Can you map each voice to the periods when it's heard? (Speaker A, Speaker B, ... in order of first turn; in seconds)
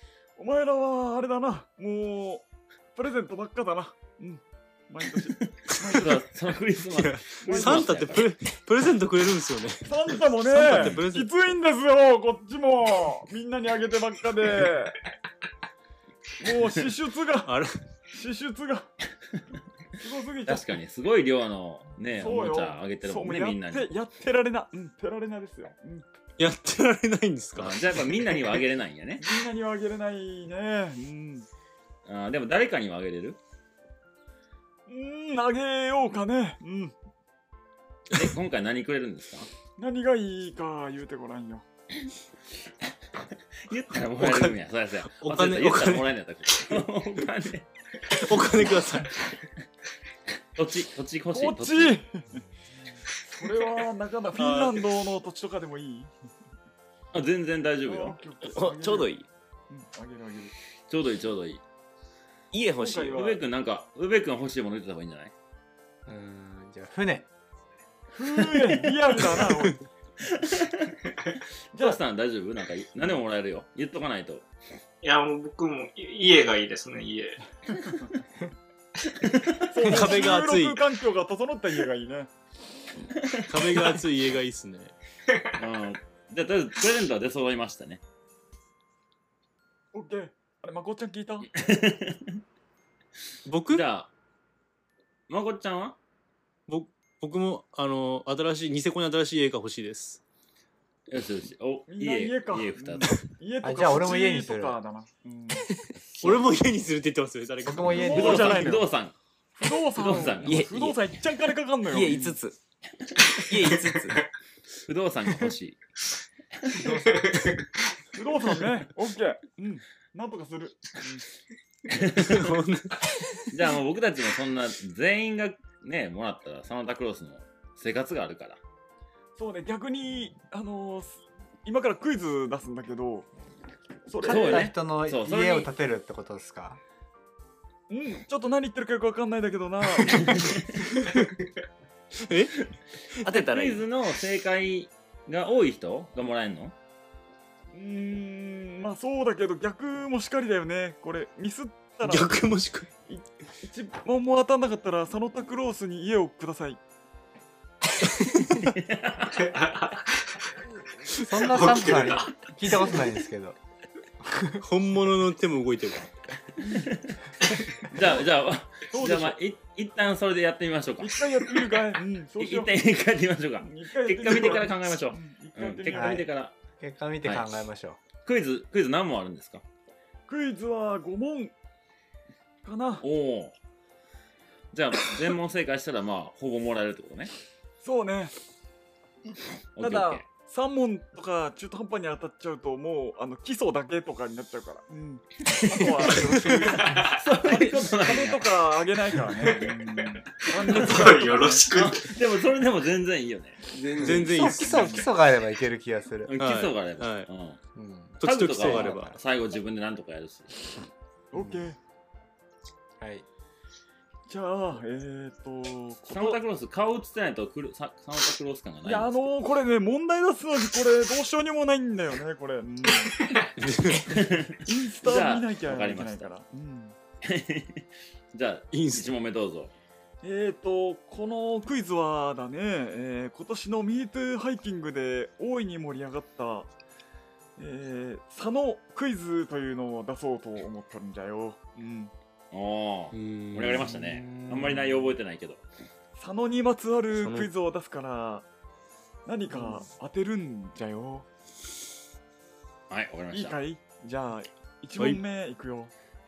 Speaker A: 0.4-6.2, 7.4-8.1, 9.8-15.0, 16.4-17.5, 18.1-18.9, 20.0-20.7, 22.1-26.0, 29.2-31.5, 34.9-36.9, 39.8-41.6, 51.3-52.4, 53.3-56.1, 57.9-59.1, 59.7-60.5, 62.8-63.4, 68.1-69.8, 79.7-82.3, 89.9-91.5, 101.9-105.6, 107.9-108.9, 109.6-112.4, 118.1-121.2, 129.3-133.3, 134.1-134.7, 137.9-140.5, 147.7-152.4, 153.1-156.8, 168.9-169.4, 171.0-172.7, 173.6-176.3, 180.3-181.5, 182.6-183.1, 187.8-188.3, 189.8-201.7, 204.6-205.1, 211.3-211.8, 214.3-216.4, 218.8-223.1, 224.7-226.9, 230.2-236.7, 237.6-242.1, 246.2-248.4, 249.2-251.2, 253.3-255.9
Speaker B: 5.8-8.3, 20.4-23.9, 27.5-29.2, 32.0-33.4, 38.1-39.5, 43.7-47.6, 50.5-52.0, 57.1-58.2, 60.9-61.6, 63.1-65.3, 68.4-68.8, 70.2-71.0, 71.7-74.5, 79.1-79.8, 83.2-83.8, 85.6-88.0, 91.5-92.4, 93.7-94.1, 95.3-96.0, 101.1-103.2, 108.1-109.1, 109.9-110.7, 114.9-115.8, 116.7-117.0, 121.9-122.5, 123.5-128.6, 134.2-135.7, 140.1-140.7, 143.3-146.7, 158.6-159.5, 166.7-167.2, 167.8-171.6, 172.4-176.5, 178.2-179.6, 183.0-183.5, 184.7-187.3, 189.8-190.3, 197.1-198.4, 201.7-203.6, 206.3-207.6, 208.2-210.5, 216.1-219.3, 224.0-226.3, 227.2-229.7, 242.5-245.6, 252.9-253.6
Speaker C: 6.9-11.3, 17.4-17.8, 26.4-28.6, 44.2-44.5, 45.1-46.1, 48.1-49.2, 54.4-54.8, 79.8-80.8, 83.5-84.9, 93.5-93.9, 96.7-100.2, 106.2-108.5, 122.2-123.5, 142.2-142.5, 152.0-152.9, 158.0-158.5, 164.6-166.1, 196.2-196.7, 204.0-205.0, 206.3-207.3, 208.2-209.1, 223.6-224.2, 228.7-229.1, 243.1-244.8, 247.2-247.5, 255.0-255.2
Speaker D: 58.4-59.3, 62.5-63.2, 110.4-111.0, 111.9-112.5, 113.4-114.2, 143.2-143.8, 203.7-204.6
Speaker E: 66.0-67.3, 103.6-104.8, 107.6-108.6, 116.8-117.1, 134.2-136.8, 161.2-163.6, 164.2-164.6, 175.9-176.2, 176.8-178.0, 204.1-206.3, 207.7-209.2, 211.3-211.6, 213.0-213.2
Speaker F: 75.0-77.4, 117.0-117.5, 159.4-160.3, 161.5-162.4, 196.8-197.1, 200.6-202.1